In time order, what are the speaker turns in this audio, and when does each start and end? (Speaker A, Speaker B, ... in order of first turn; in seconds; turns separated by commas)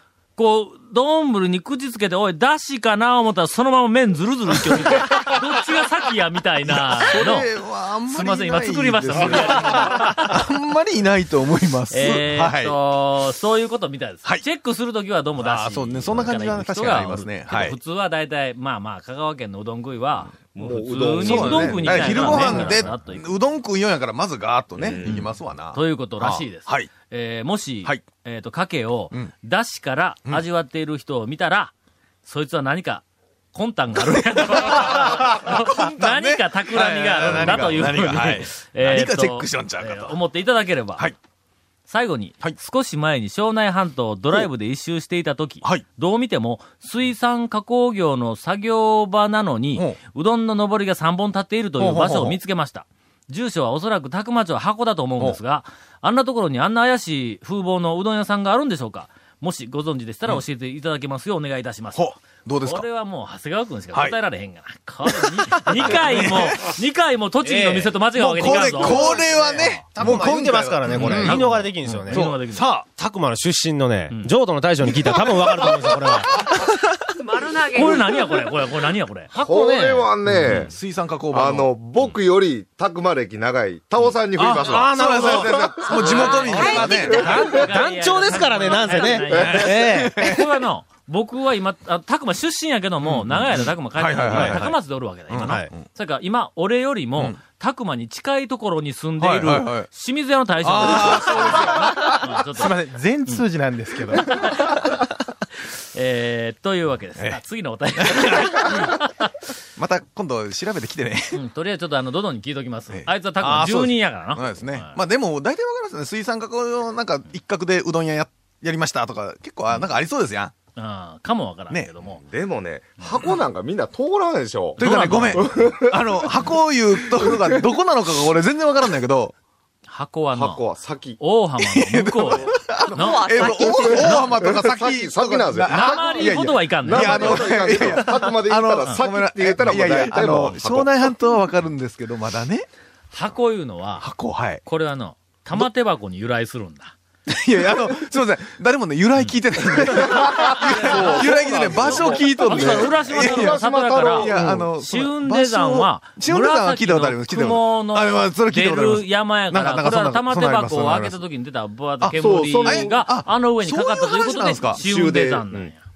Speaker A: 0.4-7.5, Speaker B: 6.7-12.8, Speaker A: 8.1-10.4, Speaker A: 11.9-23.3, Speaker B: 15.4-17.8, Speaker C: 20.5-22.9, Speaker B: 21.1-26.9, Speaker C: 24.8-25.4, Speaker A: 25.7-31.7, Speaker A: 32.2-41.1, Speaker B: 34.1-40.2, Speaker A: 41.9-69.8, Speaker B: 51.8-52.4, Speaker B: 62.0-62.9, Speaker B: 63.9-64.2, Speaker B: 65.0-66.8, Speaker B: 67.5-72.9, Speaker D: 70.0-72.3, Speaker A: 70.9-72.7, Speaker D: 73.0-76.7, Speaker B: 74.9-76.6, Speaker E: 77.2-78.3, Speaker A: 77.7-79.3, Speaker D: 79.3-80.5, Speaker C: 79.4-80.8, Speaker B: 80.2-81.8, Speaker C: 81.3-86.5, Speaker B: 84.3-87.3, Speaker D: 84.6-85.9, Speaker E: 86.0-87.4, Speaker A: 86.3-102.7, Speaker D: 87.1-90.3, Speaker B: 89.3-90.5, Speaker B: 93.0-94.8, Speaker D: 94.3-94.7, Speaker B: 95.3-95.8, Speaker D: 95.4-95.7, Speaker B: 99.2-99.9, Speaker B: 100.6-102.2, Speaker F: 102.5-104.8, Speaker A: 104.2-104.8, Speaker A: 105.9-109.1, Speaker B: 107.2-107.4, Speaker B: 108.0-109.1, Speaker B: 109.8-111.4, Speaker A: 111.3-115.0, Speaker B: 112.9-120.5, Speaker A: 120.8-122.2, Speaker C: 122.2-124.8, Speaker B: 124.8-129.3, Speaker A: 124.8-125.5, Speaker C: 125.3-126.3, Speaker C: 127.0-127.6, Speaker A: 129.9-130.6, Speaker C: 130.3-131.2, Speaker A: 131.2-133.8, Speaker B: 131.6-142.7, Speaker E: 132.9-134.3, Speaker C: 133.7-141.0, Speaker A: 135.7-138.2, Speaker A: 143.1-144.1, Speaker B: 144.0-144.6, Speaker A: 144.6-146.9, Speaker B: 147.3-161.2, Speaker C: 149.9-154.7, Speaker A: 150.6-165.8, Speaker B: 162.0-164.8, Speaker C: 162.1-163.0, Speaker C: 164.8-165.7